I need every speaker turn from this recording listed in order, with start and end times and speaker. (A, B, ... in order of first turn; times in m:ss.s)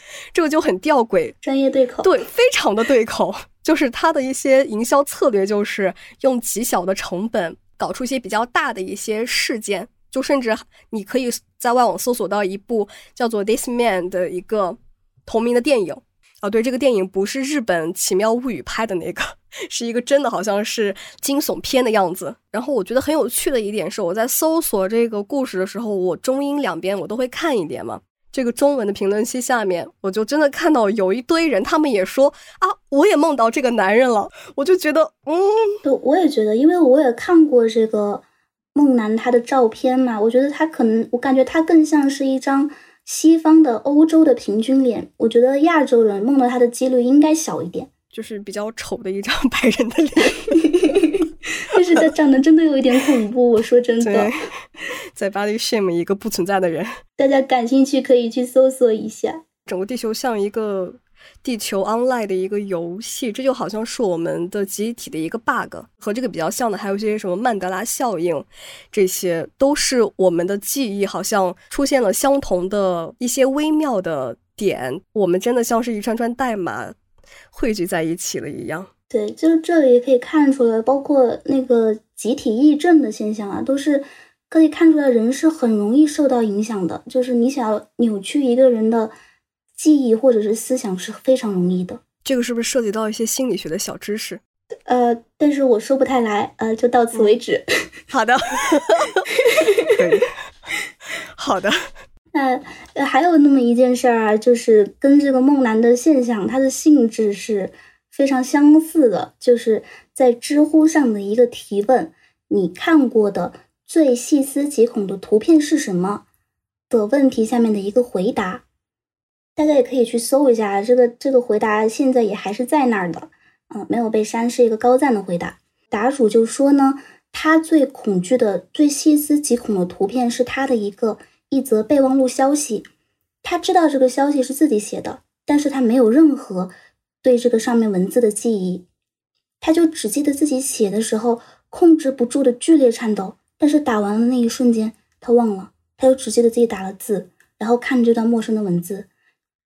0:00.3-0:01.4 A
0:01.4-0:02.1 B
0:02.0-0:35.8 A
0:35.8-0:38.2 B
0:38.7-0:47.9 B
0:48.1-0:51.0 A
0:50.6-0:54.3 B
0:54.0-0:54.3 A
0:55.1-0:57.0 A
0:57.2-0:59.4 B
0:59.7-1:17.0 A
1:17.5-1:18.9 A
1:19.1-1:29.1 B
1:29.8-1:32.0 B
1:32.2-1:34.4 A
1:34.9-1:37.6 B
1:38.1-1:39.3 A
1:39.4-1:39.9 B
1:39.8-1:40.3 A
1:41.4-1:41.8 A
1:42.3-1:56.2 B
1:56.9-1:58.6 B
1:59.6-2:12.9 B
2:13.4-2:18.8 B
2:19.6-2:29.1 B